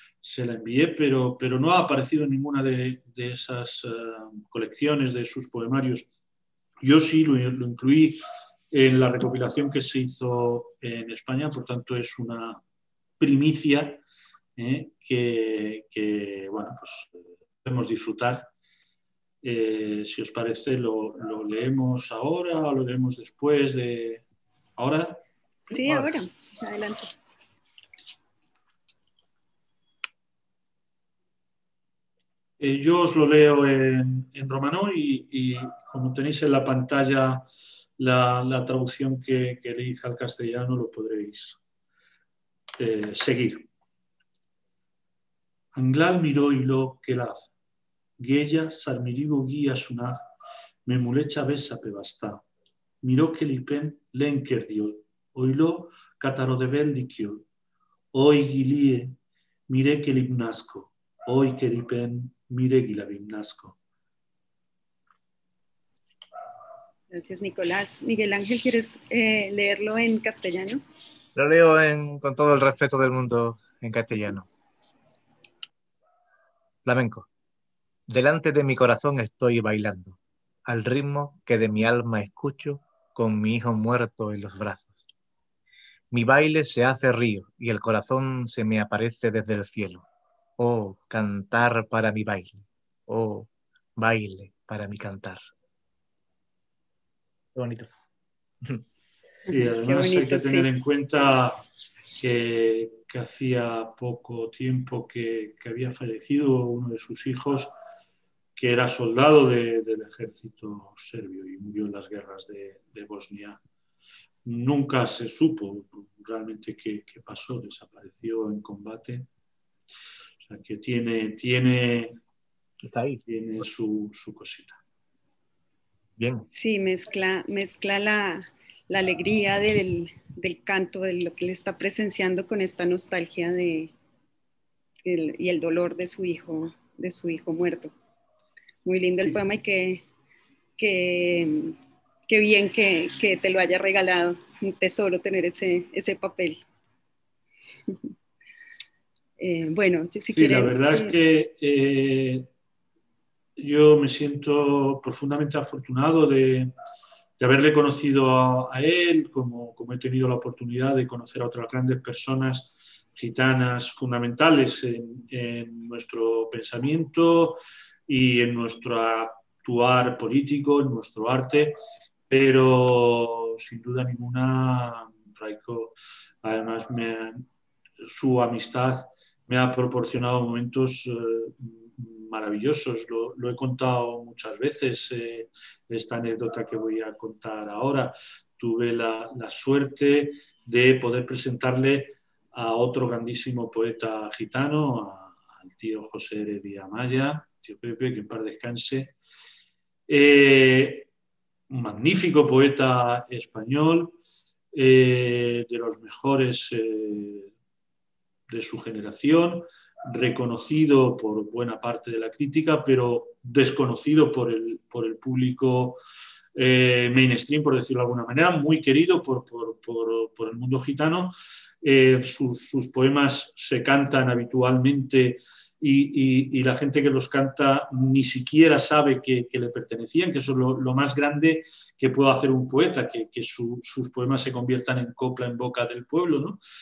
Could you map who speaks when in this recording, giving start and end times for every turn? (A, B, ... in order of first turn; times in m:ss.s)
0:00.2-0:06.1 A
0:06.8-0:08.2 A
0:08.7-0:12.6 A
0:13.2-0:14.0 A
0:14.6-0:17.1 A
0:17.6-0:18.5 A
0:19.4-0:24.2 A
0:24.8-0:25.2 A
0:25.7-0:27.1 B
0:25.8-0:26.1 C
0:32.6-0:37.4 A
0:38.0-0:41.6 A
0:42.8-0:43.7 A
0:45.7-0:47.5 A
0:48.2-0:50.2 A
0:50.8-0:52.4 A
0:53.0-0:57.4 A
0:58.1-0:59.1 A
0:59.7-1:03.8 A
1:07.1-1:10.8 B
1:11.3-1:14.5 C
1:16.8-1:17.3 C
1:18.1-1:25.0 C
1:26.1-1:30.0 C
1:30.6-1:35.4 C
1:37.5-1:37.9 C
1:39.5-1:40.7 B
1:39.5-1:41.6 A
1:42.2-1:47.7 A
1:48.6-1:53.6 A
1:54.4-1:59.3 A
2:00.4-2:02.2 A
2:02.8-2:03.6 C
2:03.3-2:04.8 A
2:06.2-2:06.4 C
2:06.5-2:13.9 B
2:15.0-2:17.9 B
2:18.8-2:20.0 B
2:20.8-2:21.8 B
2:22.3-2:26.6 B
2:29.4-2:31.1 B
2:30.3-2:32.5 A
2:33.6-2:36.7 A
2:37.4-2:51.8 A
2:52.3-2:57.4 A
2:58.0-3:19.2 A
3:20.1-3:21.1 A
3:21.7-3:24.2 A
3:24.7-3:27.5 A
3:28.5-3:36.0 A
3:36.5-3:56.6 A